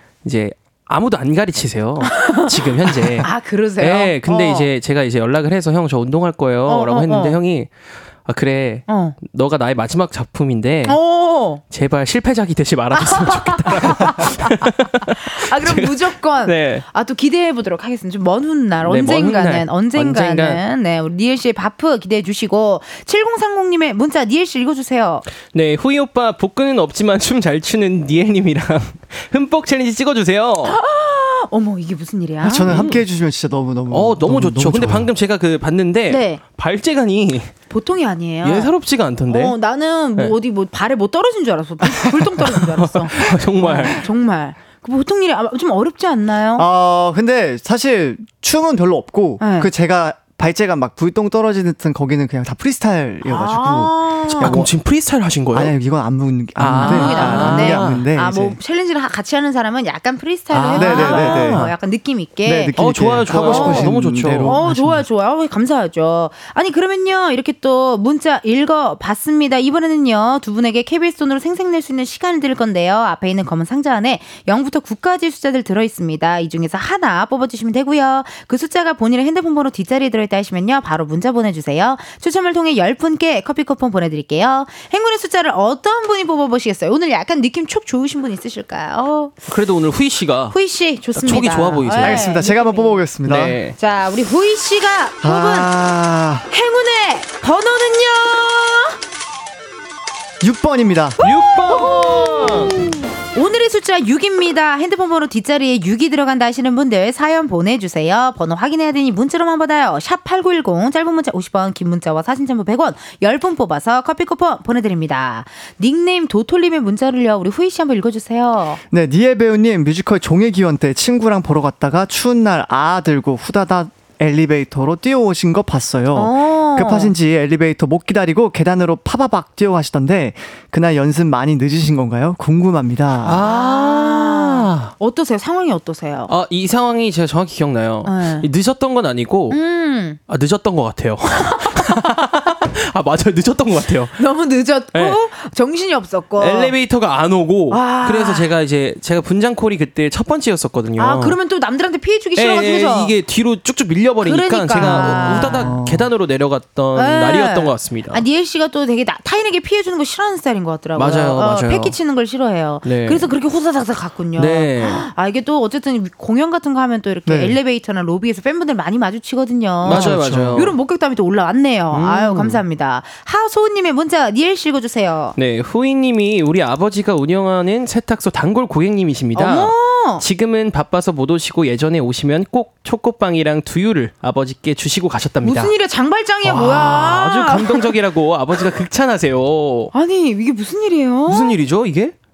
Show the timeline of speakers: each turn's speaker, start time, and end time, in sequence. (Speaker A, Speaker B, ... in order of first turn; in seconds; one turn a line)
Speaker A: 0.2-11.0
Speaker B: 2.0-2.5
Speaker B: 3.2-4.7
Speaker B: 6.7-7.4
Speaker B: 8.9-9.2
Speaker B: 10.8-11.6
Speaker A: 11.7-16.8
Speaker B: 12.9-14.7
Speaker B: 15.3-25.2
Speaker A: 18.8-20.6
Speaker A: 25.4-30.8
Speaker B: 30.6-32.9
Speaker C: 32.4-35.1
Speaker A: 32.6-33.0
Speaker A: 33.9-37.5
Speaker B: 36.1-36.4
Speaker B: 37.7-38.7
Speaker A: 38.4-39.5
Speaker B: 39.3-46.6
Speaker A: 41.8-44.0
Speaker C: 46.6-54.7
Speaker B: 49.4-49.7
Speaker B: 53.2-54.6
Speaker A: 54.3-55.8
Speaker C: 55.5-58.6
Speaker A: 56.5-58.1
Speaker B: 56.8-62.8
Speaker A: 60.5-61.7
Speaker C: 60.8-61.6
Speaker C: 62.4-65.0
Speaker A: 62.7-64.7
Speaker B: 63.3-89.5
Speaker A: 89.5-90.5
Speaker B: 90.5-93.0
Speaker A: 91.1-92.3
Speaker C: 92.0-93.6
Speaker A: 93.2-93.8
Speaker B: 93.7-95.7
Speaker C: 95.2-96.4
Speaker B: 96.5-98.9
Speaker C: 100.4-101.2
Speaker B: 101.2-118.8
Speaker A: 101.2-102.7
Speaker C: 118.9-133.4
Speaker B: 126.1-127.1
Speaker A: 133.2-134.9
Speaker B: 133.4-136.3
Speaker A: 136.3-139.6
Speaker B: 138.0-138.5
Speaker B: 139.5-140.2
Speaker A: 140.3-144.2
Speaker B: 141.4-141.9
Speaker B: 144.2-146.8
Speaker A: 144.9-145.2
Speaker A: 146.4-151.4
Speaker B: 147.7-148.5
Speaker B: 151.0-153.1
Speaker A: 152.3-158.2
Speaker B: 154.2-155.8
Speaker C: 154.8-156.1
Speaker B: 156.9-175.3
Speaker A: 161.0-161.9
Speaker A: 162.8-163.3
Speaker A: 164.3-165.1
Speaker C: 167.2-167.6
Speaker A: 169.8-170.7
Speaker C: 169.9-170.7
Speaker A: 171.9-172.6
Speaker A: 175.3-185.7
Speaker B: 179.3-180.2
Speaker B: 185.4-187.9
Speaker A: 186.4-189.9
Speaker B: 189.9-191.6
Speaker A: 191.3-192.1